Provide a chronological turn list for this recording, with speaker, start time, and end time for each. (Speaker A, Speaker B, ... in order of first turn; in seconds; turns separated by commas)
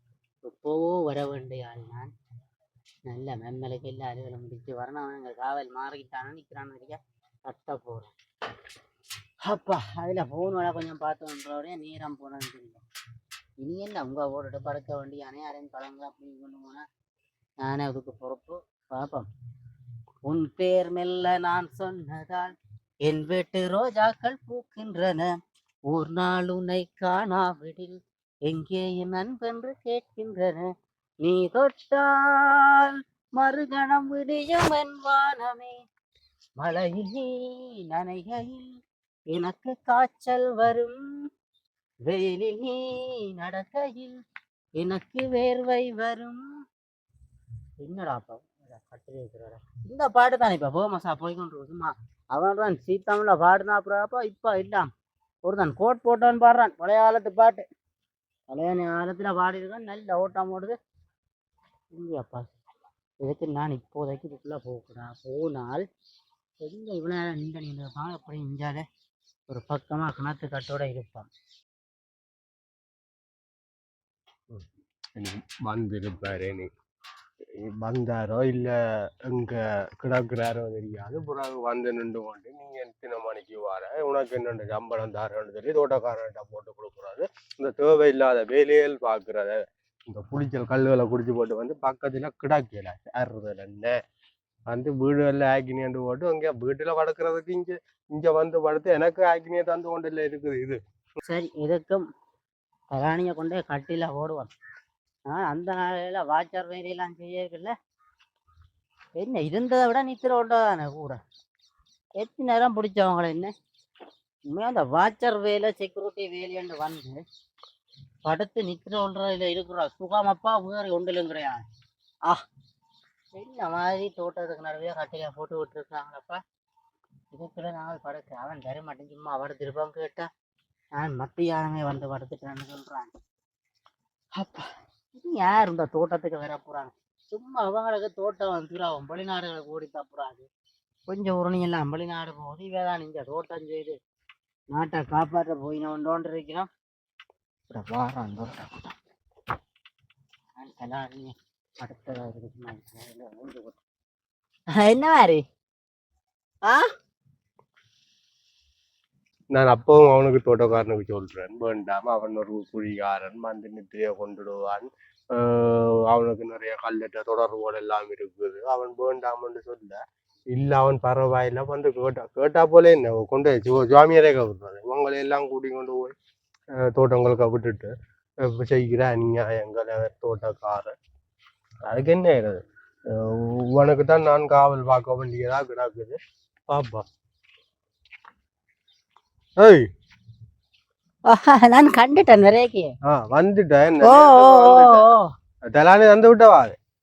Speaker A: 0.4-2.1, Speaker A: 3.1-8.1, Speaker A: 9.4-12.8, Speaker A: 13.6-16.8, Speaker A: 17.6-19.3, Speaker A: 20.2-22.5, Speaker A: 23.0-25.3, Speaker A: 25.9-30.7, Speaker A: 31.2-35.8, Speaker A: 36.6-41.3, Speaker A: 42.0-44.2, Speaker A: 44.7-46.6, Speaker A: 47.8-54.9, Speaker A: 55.4-57.6, Speaker A: 58.5-60.8, Speaker A: 61.9-62.5, Speaker A: 63.2-65.8, Speaker A: 66.6-68.8, Speaker A: 69.5-71.3, Speaker B: 74.5-76.7, Speaker B: 77.6-78.7, Speaker B: 79.3-93.9, Speaker B: 94.7-100.8, Speaker A: 101.2-102.0, Speaker A: 102.9-104.5, Speaker A: 105.3-107.7, Speaker A: 109.1-111.2, Speaker A: 112.2-113.5, Speaker A: 114.5-117.2, Speaker A: 118.2-121.6, Speaker A: 123.3-126.4, Speaker A: 127.3-130.3, Speaker A: 130.9-133.2, Speaker A: 134.3-140.5, Speaker A: 141.1-144.0, Speaker A: 144.7-146.7, Speaker A: 147.7-148.9, Speaker A: 150.6-153.8, Speaker A: 154.7-155.4, Speaker B: 159.5-170.0, Speaker B: 170.5-176.1, Speaker B: 176.8-180.9, Speaker B: 181.9-186.2, Speaker B: 186.7-187.1, Speaker B: 189.6-189.8, Speaker A: 191.3-192.9, Speaker B: 193.1-195.1, Speaker A: 194.0-195.3, Speaker B: 195.7-196.8